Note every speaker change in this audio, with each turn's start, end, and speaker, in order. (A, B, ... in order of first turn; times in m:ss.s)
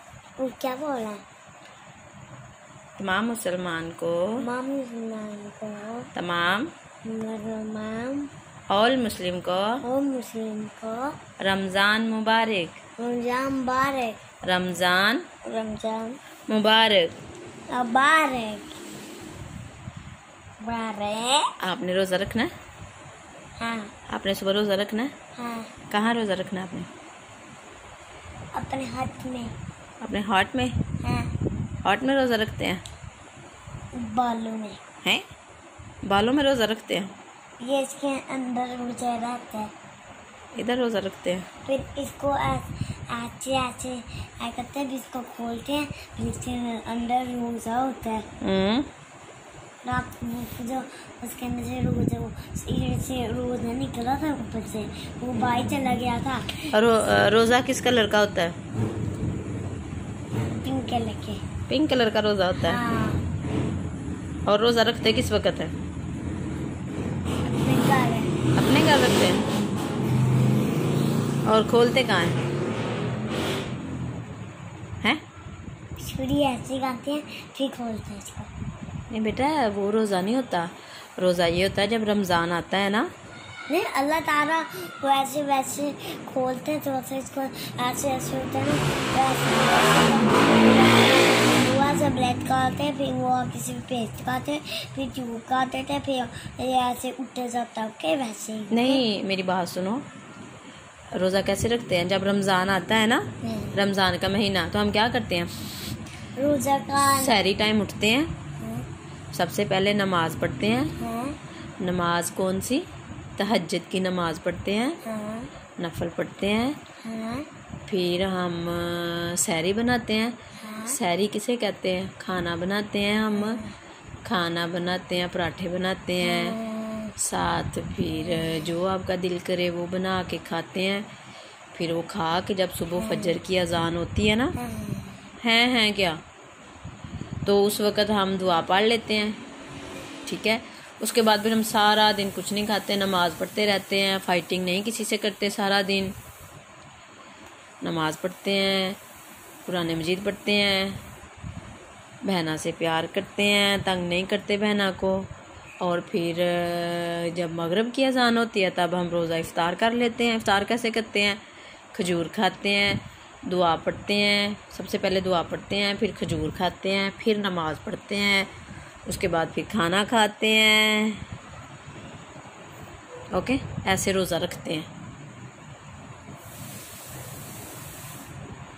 0:00.4-0:01.2 A
0:03.0-0:04.5 B
0:04.4-0:06.1 A
0:06.1-0:06.7 B
0:07.0-0:08.3 A
0:08.7-0:09.8 B
0:09.8-0:11.2 A
0:11.4-0:12.8 B
0:13.0-0:14.2 A
0:14.4-0:15.3 B
0:15.4-0:16.2 A
0:16.5-0:17.1 B
0:17.7-0:18.8 A
0:20.6-0:21.5 A
0:21.6-0:22.5 B
0:23.6-0:23.9 A
0:24.1-0:25.1 B
0:25.4-0:25.7 A
0:25.9-0:26.9 B
0:28.6-0:29.5 A
0:30.0-0:30.8 B
0:31.0-0:31.3 A
0:31.8-0:32.8 B
0:34.0-0:34.8 A
0:36.0-0:37.1 B
0:37.6-0:39.7 A
0:40.6-0:41.5 B
0:41.7-0:48.3 A
0:48.4-0:48.9 B
0:49.8-0:56.7 A
0:56.7-0:58.6 B
1:00.6-1:01.4 A
1:01.7-1:02.8 B
1:02.6-1:03.2 A
1:04.5-1:05.7 B
1:07.5-1:08.4 A
1:08.6-1:09.5 B
1:11.4-1:12.4 B
1:16.0-1:18.5 A
1:19.1-1:23.1 B
1:23.7-1:39.0 A
1:38.7-1:40.1 B
1:41.1-1:45.5 B
1:43.4-1:43.8 A
1:46.4-1:47.4 A
1:47.0-1:48.3 B
1:48.6-1:48.9 A
1:49.3-1:50.9 B
1:51.0-1:51.4 A
1:51.8-1:52.9 B
1:53.4-1:55.0 B
1:55.0-1:55.5 A
1:55.8-1:56.8 B
1:57.0-1:57.5 A
1:57.9-2:00.4 B
2:00.6-2:01.0 A
2:00.9-2:03.6 B
2:03.4-2:03.7 A
2:04.2-2:06.6 B
2:06.2-2:07.2 A
2:07.2-2:11.1 B
2:11.7-2:14.6 B
2:13.0-2:13.4 A
2:14.6-2:15.3 A
2:15.4-2:16.2 B
2:17.4-2:19.4 B
2:20.3-2:26.2 B
2:27.8-2:29.0 B
2:29.7-2:31.0 B
2:32.2-2:35.3 B
2:35.8-2:41.4 B
2:41.9-2:48.5 B
2:49.1-2:51.2 B
2:53.3-2:54.9 B